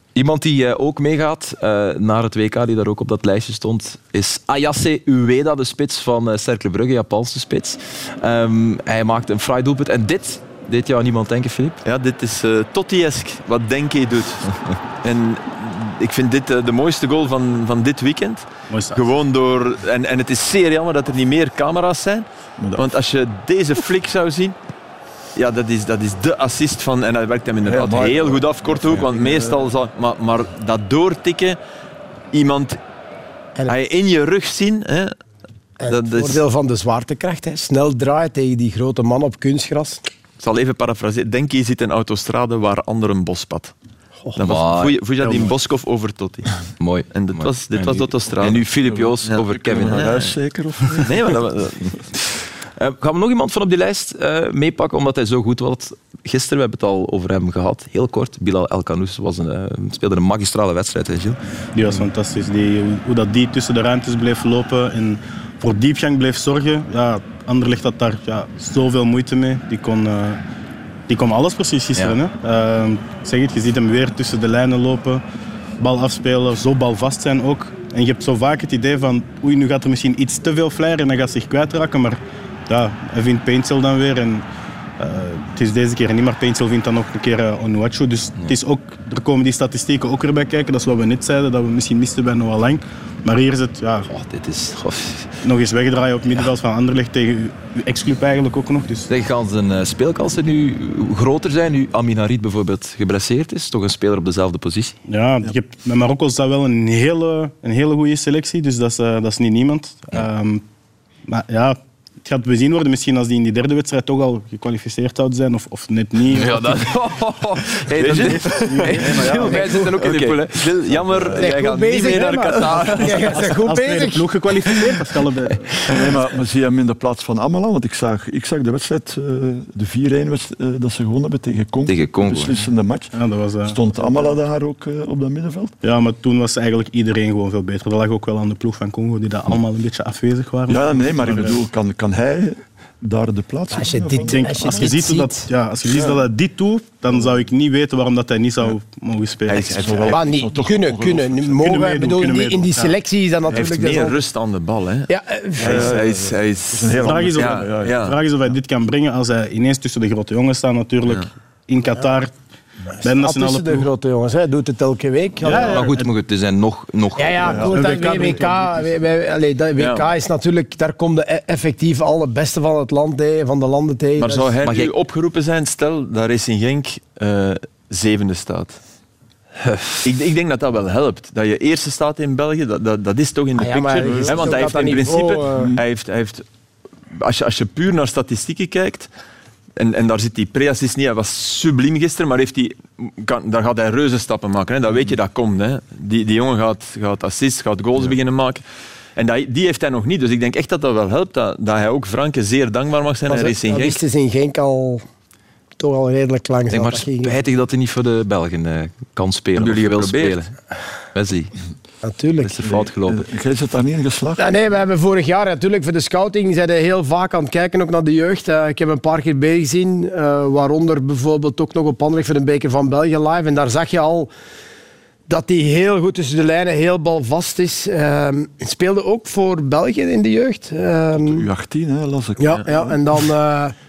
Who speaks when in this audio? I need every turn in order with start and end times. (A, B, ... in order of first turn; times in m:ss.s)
0:00.1-0:11.8 A
0:11.8-0:24.6 B
0:18.7-0:19.0 C
0:22.6-0:22.9 D
0:25.4-0:31.6 B
0:27.6-0:29.7 D
0:32.3-0:32.8 B
0:33.7-0:35.1 B
0:35.8-0:40.0 E
0:35.9-0:36.4 B
0:40.4-0:43.7 B
0:44.4-0:46.5 B
0:44.4-0:45.0 A
0:45.2-0:45.5 C
0:46.8-0:50.2 A
0:47.1-0:48.6 B
0:48.9-0:51.1 D
0:49.2-0:50.1 B
0:51.0-0:52.0 B
0:52.8-1:02.0 A
1:01.7-1:10.4 C
1:11.1-1:15.2 C
1:15.8-1:24.4 C
1:25.0-1:34.1 C
1:34.1-1:35.3 A
1:35.4-1:39.1 C
1:39.1-1:45.0 A
1:45.1-1:50.6 C
1:51.3-1:56.9 C
1:56.3-2:00.7 A
1:58.0-1:59.4 B
1:58.0-2:00.4 D
1:59.4-1:59.9 E
2:00.0-2:03.2 B
2:00.9-2:01.4 D
2:01.4-2:04.2 E
2:02.4-2:03.5 A
2:03.2-2:06.0 C
2:05.9-2:15.7 D
2:11.9-2:12.6 A
2:13.1-2:13.8 C
2:15.8-2:21.6 C
2:20.7-2:24.9 D
2:23.7-2:25.5 E
2:24.2-2:30.0 C
2:29.5-2:30.2 B
2:29.6-2:31.7 D
2:30.1-2:34.2 E
2:31.6-2:33.0 C
2:33.5-2:35.1 B
2:35.1-2:35.9 E
2:35.6-2:38.0 D
2:35.6-2:38.1 B
2:37.0-2:42.3 C
2:43.0-2:43.9 C
2:43.0-2:45.7 E
2:45.4-2:46.1 C
2:45.5-2:47.8 A
2:47.2-2:54.5 E
2:47.4-2:47.7 D
2:47.6-2:48.9 C
2:49.8-2:50.1 B
2:54.2-2:58.8 B
2:54.6-2:54.9 A
2:59.6-3:00.0 A
3:00.0-3:06.4 B
3:03.6-3:05.7 E
3:04.0-3:04.9 D
3:05.5-3:05.8 D
3:07.1-3:09.1 B
3:09.8-3:18.6 B
3:19.2-3:24.0 B
3:23.3-3:25.0 E
3:25.8-3:27.4 E
3:26.7-3:30.6 A
3:29.6-3:30.5 B
3:31.1-3:31.5 A
3:32.0-3:32.6 E
3:32.4-3:33.2 A
3:32.6-3:34.6 D
3:34.4-3:44.3 E
3:45.3-3:51.4 E
3:51.2-3:53.0 D
3:52.4-3:53.7 E